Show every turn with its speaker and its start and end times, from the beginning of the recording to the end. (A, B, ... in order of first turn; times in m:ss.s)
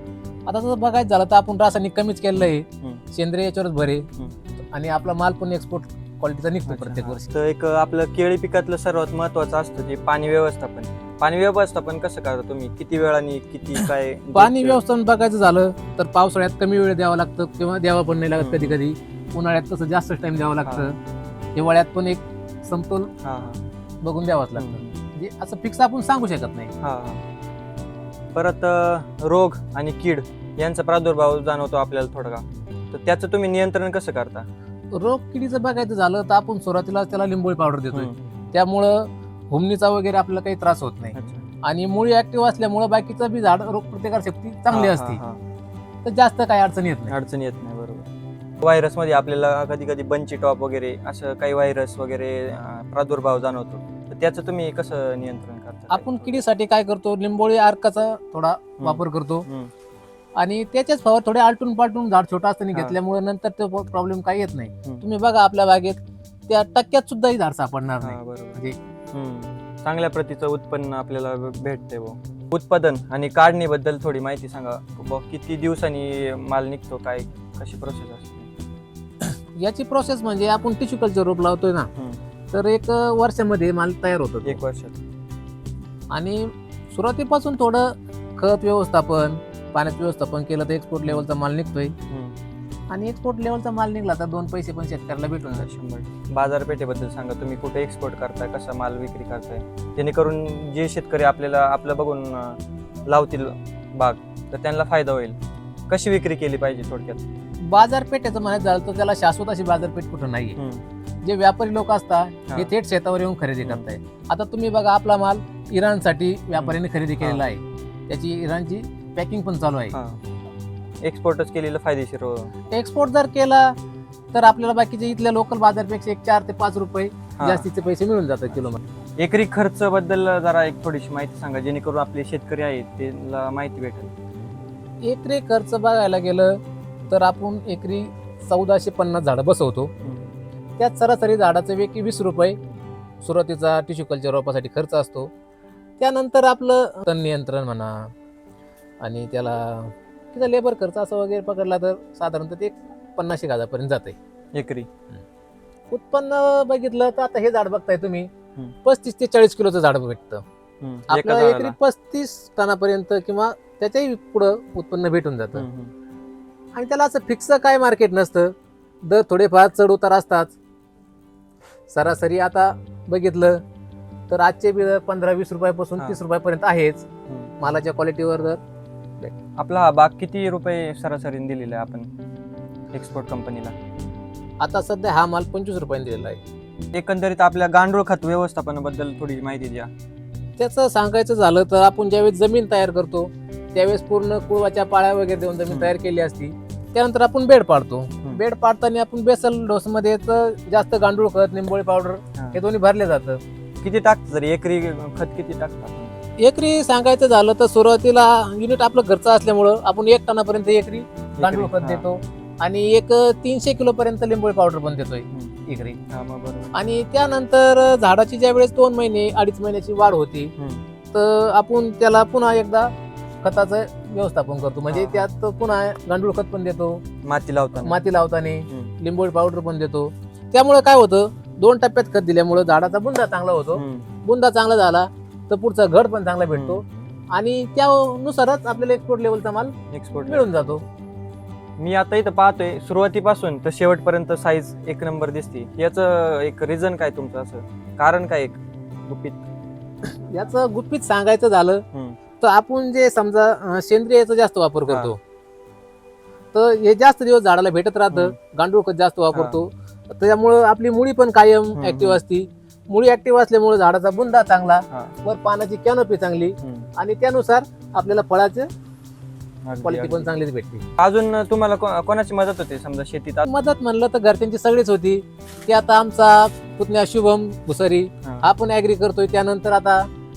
0:00.5-0:04.1 A
0:02.4-0:03.0 B
0:04.7-0:07.2 A
0:06.7-0:14.8 B
0:14.3-0:21.0 A
0:18.4-0:18.8 B
0:20.6-0:20.9 B
0:21.5-0:23.1 A
0:23.2-0:23.6 B
0:24.0-0:26.7 A
0:24.6-0:24.9 B
0:26.8-0:27.2 B
0:28.3-0:34.5 B
0:34.9-0:45.2 A
0:41.1-0:41.4 B
0:44.7-0:45.4 B
0:46.0-0:47.1 A
0:47.1-0:48.1 B
0:48.6-0:56.4 B
0:55.9-0:59.5 A
0:58.8-0:59.7 B
1:00.4-1:08.8 A
1:08.0-1:18.5 B
1:19.6-1:21.9 A
1:22.5-1:24.6 A
1:24.4-1:25.0 B
1:26.1-1:31.9 A
1:32.1-1:32.4 B
1:32.9-1:35.7 A
1:35.4-1:45.4 B
1:45.9-1:47.2 B
1:47.6-1:50.6 A
1:50.6-1:50.8 B
1:51.2-2:00.0 A
1:56.6-1:57.4 B
1:59.9-2:00.2 B
2:01.0-2:02.5 B
2:02.7-2:03.7 A
2:04.3-2:08.8 A
2:07.4-2:07.6 B
2:09.2-2:14.1 B
2:15.0-2:19.9 A
2:20.8-2:22.6 A
2:23.2-2:25.3 A
2:26.0-2:28.1 A
2:29.0-2:34.2 A
2:34.5-2:34.9 B
2:35.9-2:38.3 A
2:38.8-2:40.4 A
2:40.8-2:41.7 B
2:41.1-2:45.6 A
2:45.5-2:45.9 B
2:46.7-2:50.5 A
2:51.9-2:53.6 A
2:54.3-2:57.0 A
2:57.6-2:58.6 A
2:59.6-3:02.1 B
3:02.9-3:03.7 B
3:04.6-3:06.4 A
3:06.9-3:09.9 B
3:10.6-3:23.4 A
3:23.8-3:26.1 B
3:26.4-3:36.0 A
3:31.4-3:32.0 B
3:36.1-3:36.7 B
3:36.7-3:40.5 A
3:40.6-3:40.8 B
3:41.1-3:42.9 A
3:43.4-3:47.0 A
3:44.9-3:45.3 B
3:47.2-3:48.0 B
3:47.8-4:00.8 A
3:53.7-3:54.0 B
3:56.5-3:56.8 B
3:59.9-4:00.5 B
4:01.8-4:09.4 B
4:10.0-4:11.8 A
4:12.4-4:15.2 A
4:16.5-4:28.7 A
4:18.1-4:18.4 B
4:19.3-4:19.6 B
4:21.8-4:22.2 B
4:26.6-4:26.9 B
4:29.6-4:30.3 B
4:29.8-4:30.8 A
4:31.0-4:33.5 B
4:33.4-4:40.1 A